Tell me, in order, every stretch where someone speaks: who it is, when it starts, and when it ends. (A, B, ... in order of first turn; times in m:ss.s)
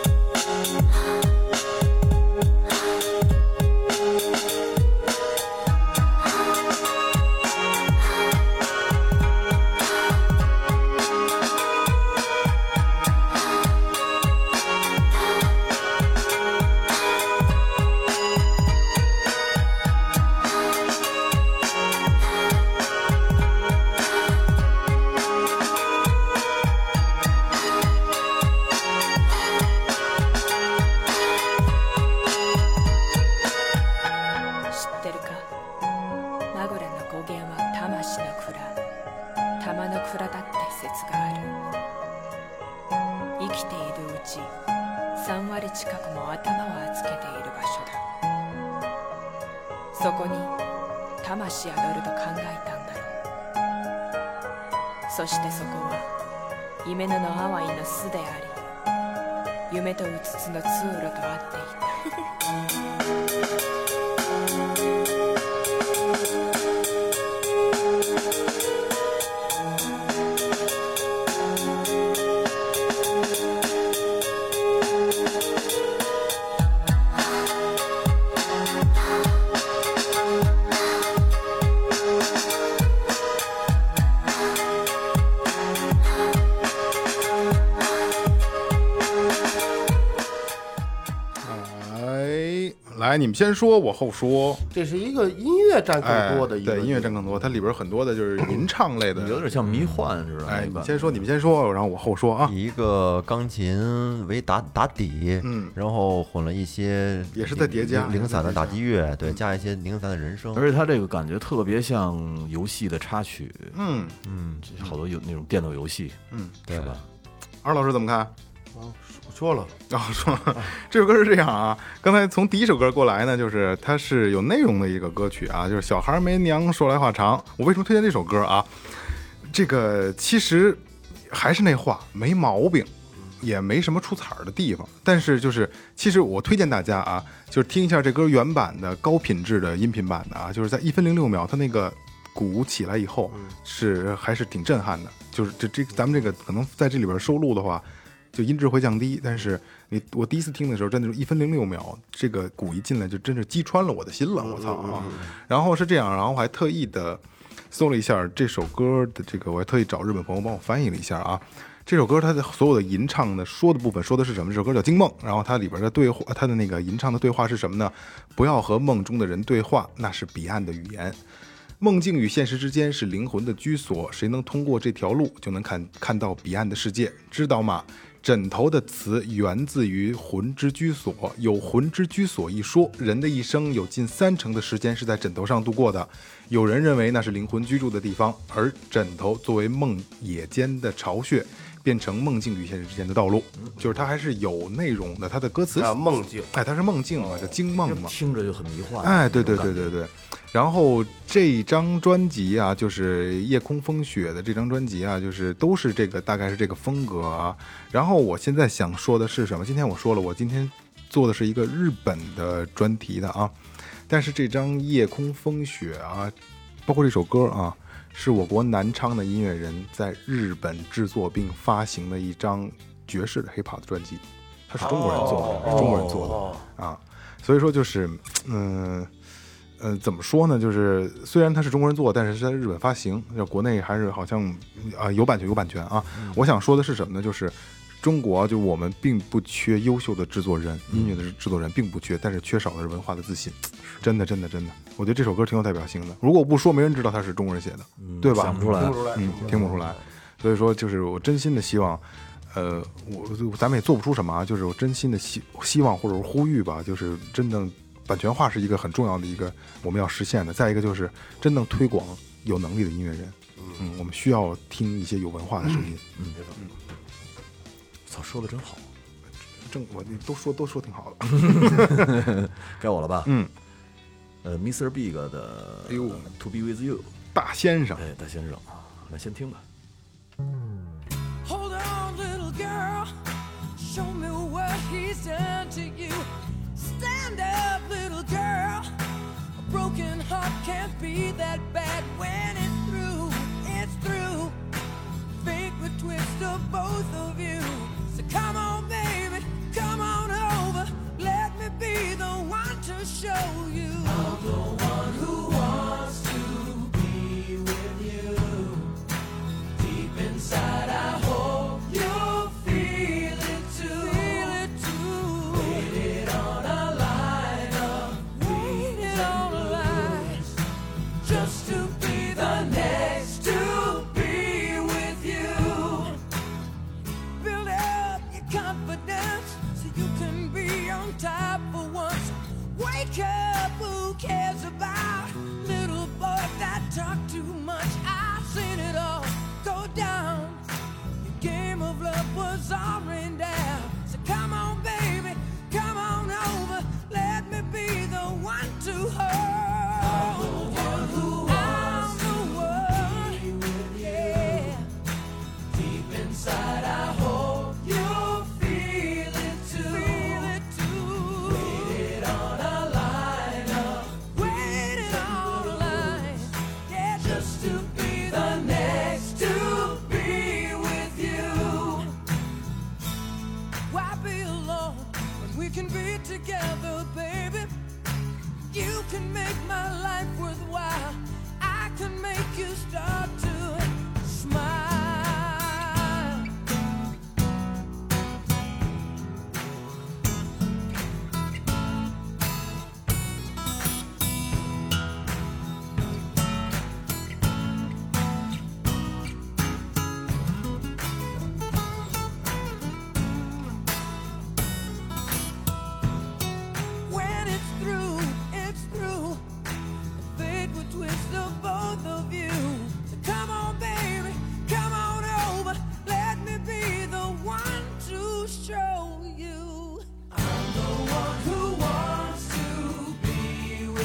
0:34.7-0:35.5 A
0:36.5-0:38.8 A
0:39.6-0:41.5 A
0:43.4-0:44.5 A
0:45.1-0:48.0 A
0:49.9-0:50.6 A
0:51.2-0:53.2 A
0:55.1-0:56.1 A
0:56.8-0:58.6 A
0:59.7-1:02.2 A
1:31.4-1:34.6 B
1:34.7-1:37.5 C
1:36.0-1:39.8 B
1:39.1-1:41.2 D
1:40.4-1:42.5 B
1:42.4-1:50.6 E
1:45.4-1:45.7 B
1:47.3-1:49.4 B
1:50.5-1:53.8 D
1:53.7-1:54.2 B
1:54.2-1:54.6 E
1:54.6-1:57.0 D
1:56.3-1:56.6 B
1:56.7-1:57.0 E
1:57.6-1:58.3 B
1:58.7-1:59.7 C
1:59.9-2:51.2 B
2:34.4-2:35.3 C
2:51.8-3:16.0 B
3:15.8-3:16.5 C
3:16.5-3:18.1 B
3:17.8-3:20.0 D
3:19.0-3:33.5 B
3:34.1-3:36.3 B
3:36.8-3:49.1 B
3:44.8-3:46.5 D
3:45.5-3:46.4 E
3:49.8-4:26.0 B
4:00.9-4:01.2 D
4:08.0-4:09.2 D
4:08.8-4:09.8 C
4:26.2-4:26.5 D
4:28.1-4:28.8 D
4:29.6-4:32.3 B
4:31.7-4:33.3 D
4:33.2-4:33.5 B
4:34.4-4:37.1 D
4:35.9-4:36.3 B
4:37.3-4:38.1 B
4:38.0-4:39.6 D
4:41.4-4:43.1 F
4:43.7-4:48.9 F
4:49.6-4:54.6 F
4:55.3-5:06.8 F
5:10.8-5:16.1 F
5:17.2-5:20.5 F
5:21.2-5:26.2 F
5:27.4-5:40.7 F
5:41.2-5:54.9 F
5:56.5-6:02.1 F
6:02.8-6:12.1 F
6:13.9-6:17.7 F
6:18.7-6:26.5 F
6:47.0-6:49.4 F
6:50.1-7:03.6 F